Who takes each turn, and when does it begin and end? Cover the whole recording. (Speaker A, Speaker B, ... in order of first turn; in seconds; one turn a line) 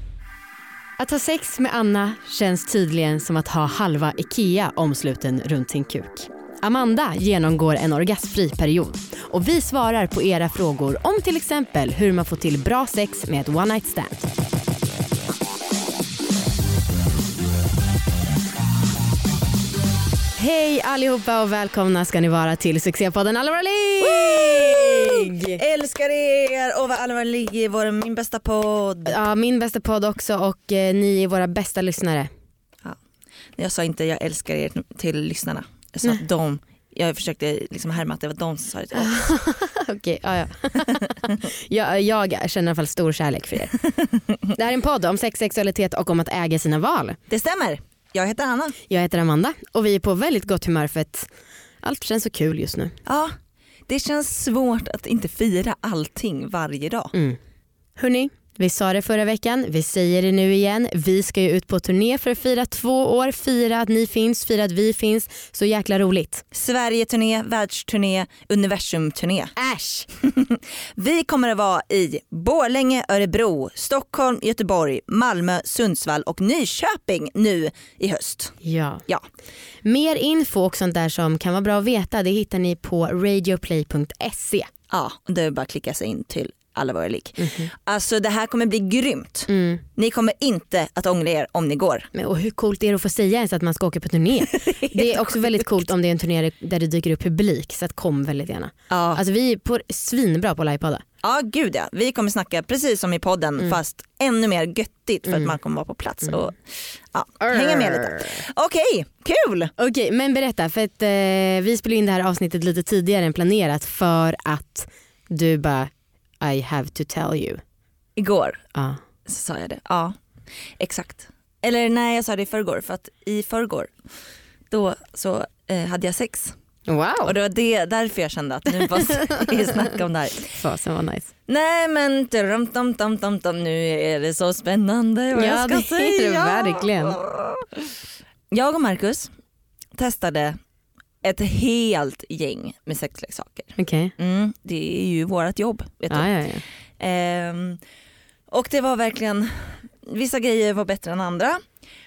Speaker A: 1.0-14.3
Speaker A: 20.4-25.6
Speaker B: 24.0-29.2
Speaker A: 29.1-32.3
Speaker B: 33.6-39.2
Speaker A: 38.9-43.8
Speaker A: 44.5-47.2
Speaker B: 47.3-48.8
Speaker A: 48.9-51.3
Speaker A: 51.8-53.0
Speaker B: 53.0-53.3
Speaker B: 53.9-57.1
Speaker A: 57.1-57.4
Speaker A: 58.0-66.5
Speaker B: 66.5-69.5
Speaker A: 69.6-70.1
Speaker B: 70.2-79.2
Speaker A: 78.6-79.0
Speaker A: 79.8-84.7
Speaker B: 84.9-92.1
Speaker A: 87.4-87.7
Speaker A: 89.5-89.8
Speaker A: 92.1-101.0
Speaker B: 94.5-95.7
Speaker B: 98.9-99.2
Speaker B: 101.2-109.7
Speaker A: 105.3-105.6
Speaker A: 107.4-108.4
Speaker A: 109.8-117.6
Speaker B: 118.2-118.6
Speaker A: 118.8-119.0
Speaker B: 119.2-120.2
Speaker B: 120.8-123.9
Speaker B: 124.7-126.5
Speaker A: 126.9-127.3
Speaker B: 127.2-130.6
Speaker A: 128.8-129.6
Speaker A: 130.5-131.3
Speaker B: 131.5-137.9
Speaker A: 135.3-137.2
Speaker B: 138.5-139.3
Speaker B: 139.9-140.6
Speaker B: 141.2-146.3
Speaker A: 143.8-144.1
Speaker A: 146.1-146.6
Speaker B: 147.0-147.8
Speaker B: 148.5-151.7